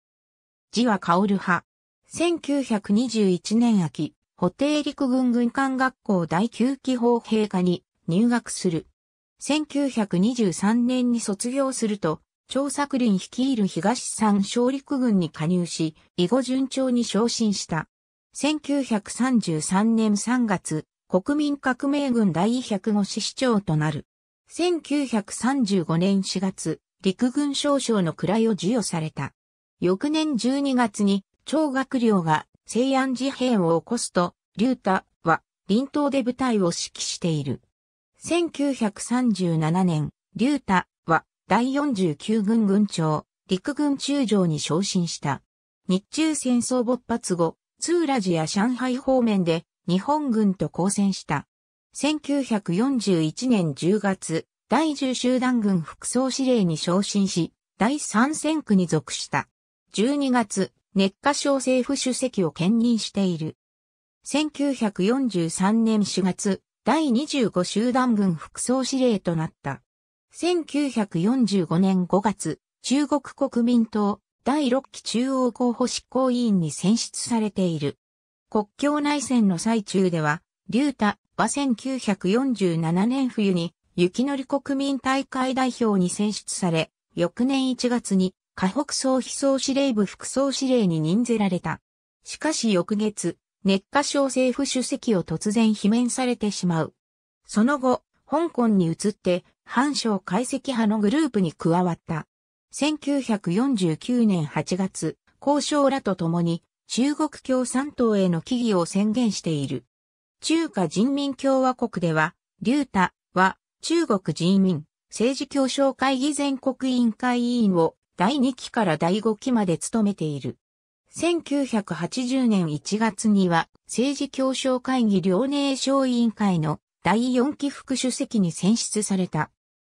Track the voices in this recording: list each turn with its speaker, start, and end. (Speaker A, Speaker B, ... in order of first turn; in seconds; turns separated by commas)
Speaker A: 0.7-8.9, Speaker A: 9.4-37.6, Speaker A: 38.2-63.6, Speaker A: 64.2-78.0, Speaker A: 78.5-96.9, Speaker A: 97.5-109.9, Speaker A: 110.4-120.6, Speaker A: 121.1-129.5